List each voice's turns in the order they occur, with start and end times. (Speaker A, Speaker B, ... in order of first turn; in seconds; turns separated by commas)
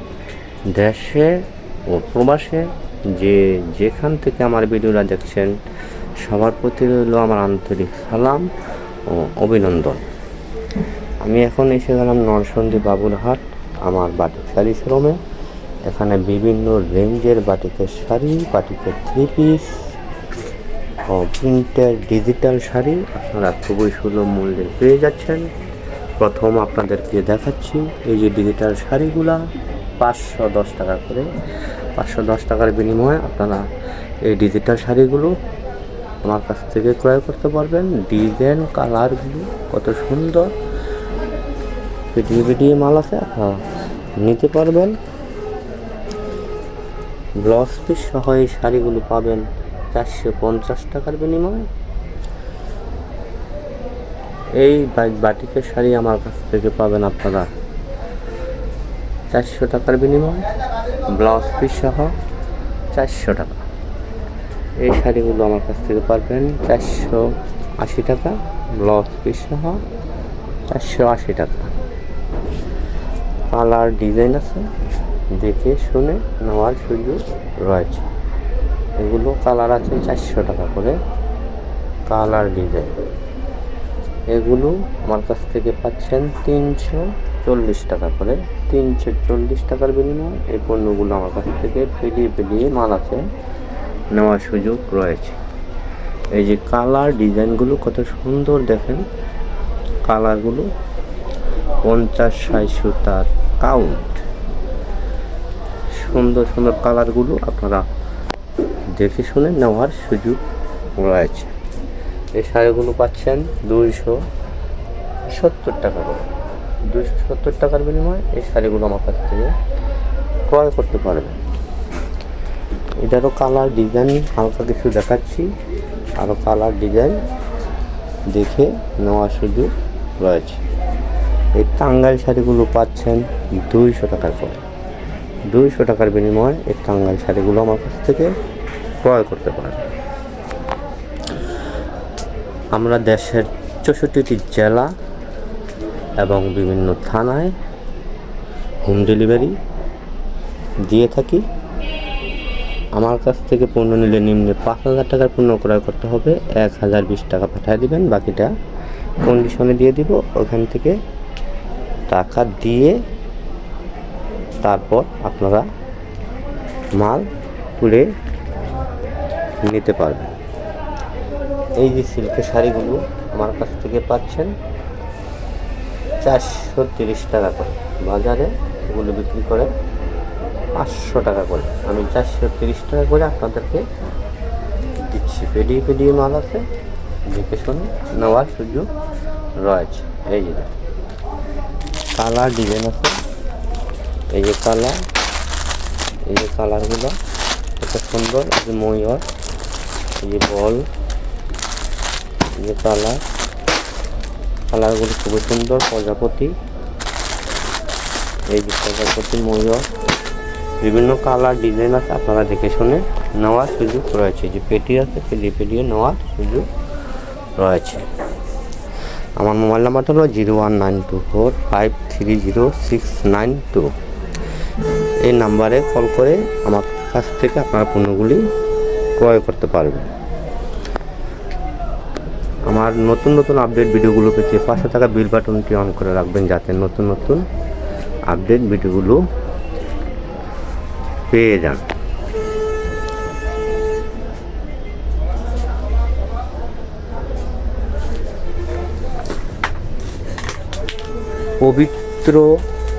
Speaker A: 0.7-5.6, Speaker A: 6.2-8.5, Speaker A: 9.1-10.0, Speaker A: 11.2-15.2, Speaker A: 15.8-19.9, Speaker A: 21.1-25.5, Speaker A: 26.2-29.4, Speaker A: 30.0-31.3, Speaker A: 31.9-33.6, Speaker A: 34.2-35.3, Speaker A: 36.2-40.5, Speaker A: 42.1-43.6, Speaker A: 44.2-45.0, Speaker A: 47.4-51.7, Speaker A: 54.6-57.5, Speaker A: 59.3-60.5, Speaker A: 61.1-62.1, Speaker A: 62.9-63.6, Speaker A: 64.8-69.8, Speaker A: 70.7-71.7, Speaker A: 73.5-74.7, Speaker A: 75.3-78.0, Speaker A: 79.0-81.0, Speaker A: 82.1-82.9, Speaker A: 84.3-93.2, Speaker A: 94.1-95.4, Speaker A: 96.3-99.0, Speaker A: 100.0-100.7, Speaker A: 101.8-104.2, Speaker A: 105.9-107.9, Speaker A: 108.9-110.4, Speaker A: 111.0-111.5, Speaker A: 112.3-114.2, Speaker A: 115.3-116.3, Speaker A: 116.9-119.5, Speaker A: 120.5-121.4, Speaker A: 123.0-125.5, Speaker A: 126.2-127.2, Speaker A: 128.3-130.6, Speaker A: 131.5-134.6, Speaker A: 135.5-138.3, Speaker A: 139.0-139.9, Speaker A: 142.7-144.9, Speaker A: 146.2-147.5, Speaker A: 148.8-149.6, Speaker A: 150.8-151.4, Speaker A: 152.9-158.5, Speaker A: 159.2-161.0, Speaker A: 162.1-163.0, Speaker A: 164.6-165.7, Speaker A: 167.0-168.1, Speaker A: 169.6-170.4, Speaker A: 171.8-174.5, Speaker A: 176.2-179.7, Speaker A: 180.7-183.8, Speaker A: 185.0-186.6, Speaker A: 187.3-188.9, Speaker A: 189.6-190.7, Speaker A: 192.1-193.2, Speaker A: 194.3-195.0, Speaker A: 196.3-197.2, Speaker A: 197.8-199.2, Speaker A: 200.2-200.9, Speaker A: 202.6-203.2, Speaker A: 204.7-206.5, Speaker A: 208.5-209.8, Speaker A: 210.8-216.7, Speaker A: 217.6-218.1, Speaker A: 219.4-223.9, Speaker A: 225.2-228.4, Speaker A: 229.2-230.1, Speaker A: 232.7-237.4, Speaker A: 238.3-239.2, Speaker A: 241.3-241.8, Speaker A: 251.6-252.6